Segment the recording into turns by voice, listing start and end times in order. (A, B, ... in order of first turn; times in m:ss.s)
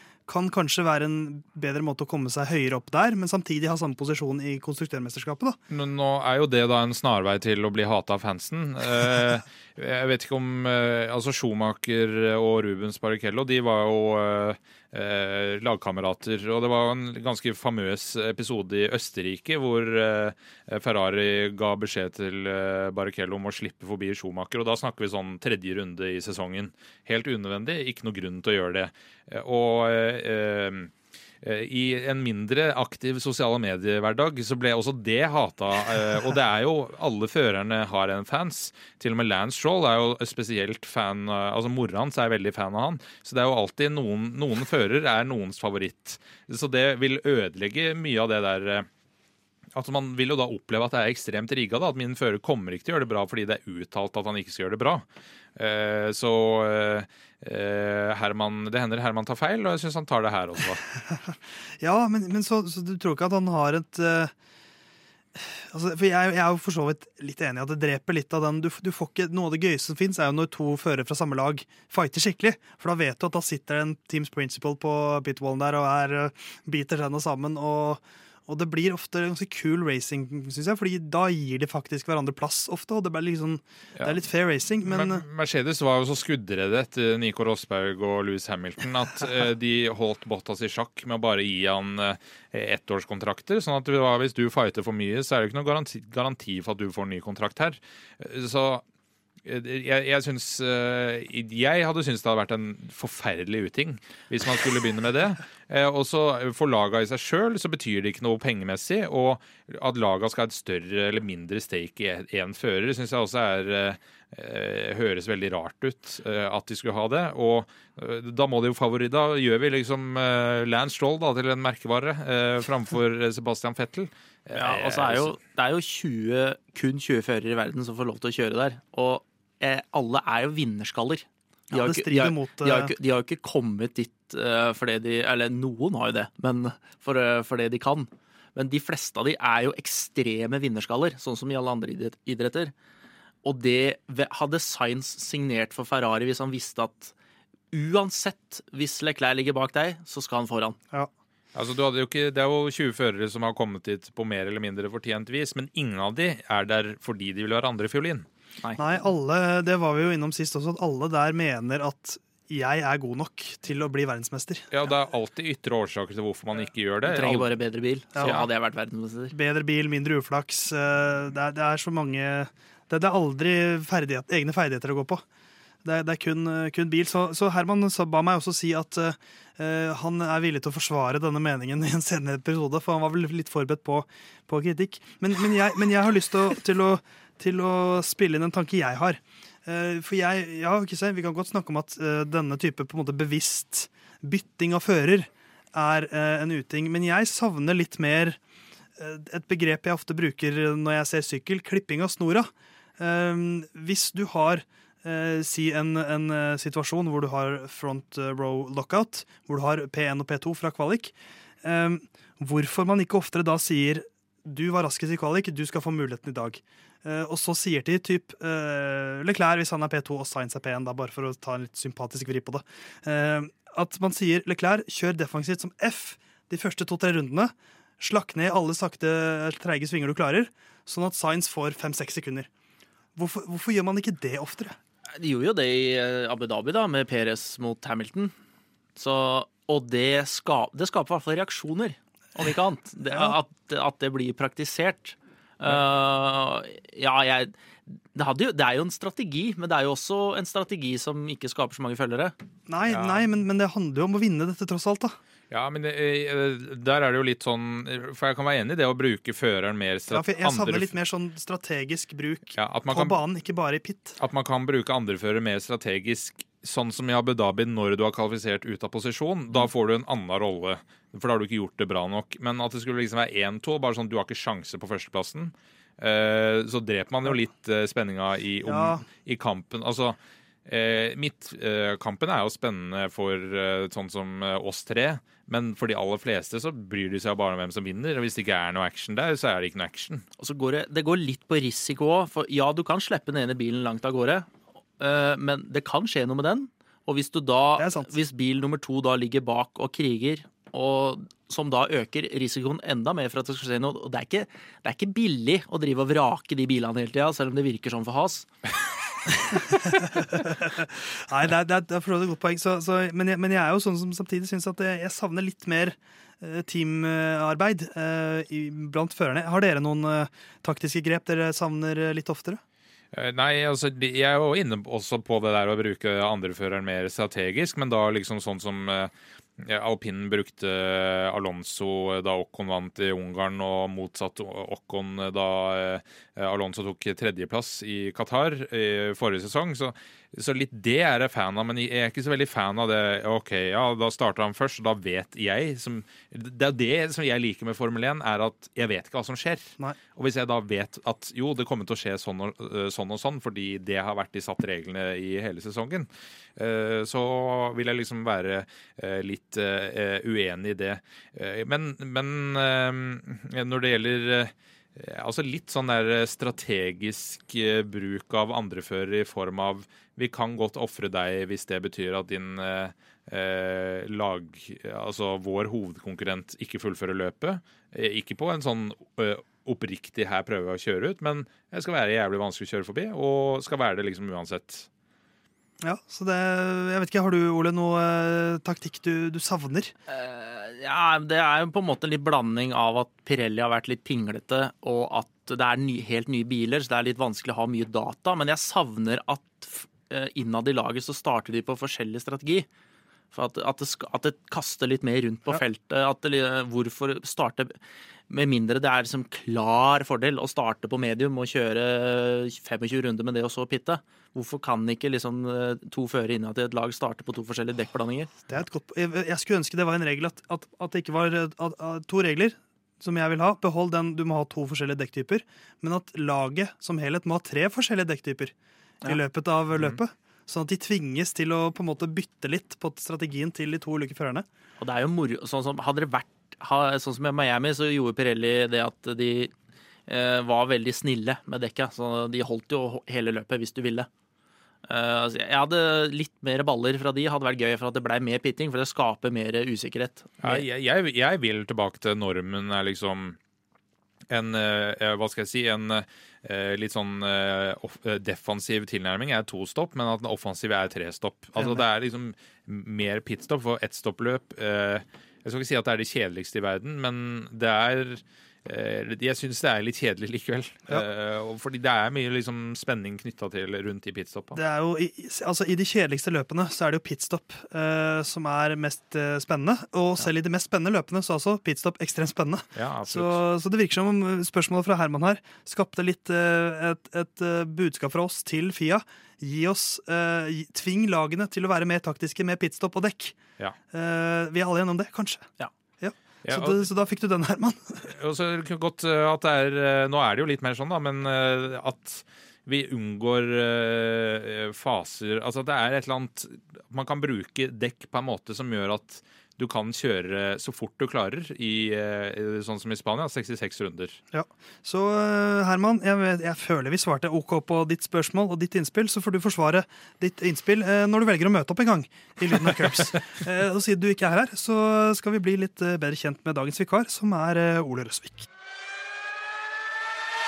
0:00.3-0:05.6 A
0:05.7-0:48.9 B
0:49.7-0:55.0 B
0:55.6-1:00.8 B
1:01.8-1:04.3 A
1:05.3-1:25.2 A
1:24.8-1:38.8 B
1:39.4-2:05.3 B
2:04.5-2:22.7 C
2:11.7-2:12.9 A
2:23.4-2:27.1 C
2:27.7-2:30.8 C
2:31.5-2:38.2 B
2:38.8-2:44.7 A
2:44.7-2:47.5 B
2:47.0-2:49.3 C
2:48.2-2:48.5 B
2:49.3-2:55.2 A
2:55.8-3:18.4 A
3:19.0-3:52.5 A
3:53.2-3:54.8 A
3:55.2-3:58.3 C
3:59.0-4:07.5 C
4:08.1-4:12.3 C
4:12.7-4:15.2 A
4:12.9-4:13.2 B
4:15.5-4:20.9 B
4:20.1-4:24.2 A
4:22.5-4:23.2 B
4:24.2-4:50.2 B
4:38.6-4:39.0 A
4:50.4-4:54.5 C
4:55.0-5:08.5 C
4:57.8-4:58.1 A
5:09.5-5:22.6 A
5:23.1-6:24.9 B
6:25.8-6:29.9 A
6:30.1-6:42.7 C
6:43.3-6:47.7 C
6:48.3-6:58.3 C
6:58.5-7:08.5 A
7:09.0-7:14.4 A
7:14.8-7:19.5 C
7:20.1-7:24.1 C
7:24.9-7:30.6 C
7:30.4-7:33.4 B
7:34.3-7:54.6 B
7:41.6-7:41.8 A
7:54.5-8:13.4 A
8:02.8-8:03.4 B
8:13.9-8:18.1 A
8:16.4-8:16.8 B
8:18.1-8:34.2 B
8:34.3-8:48.5 A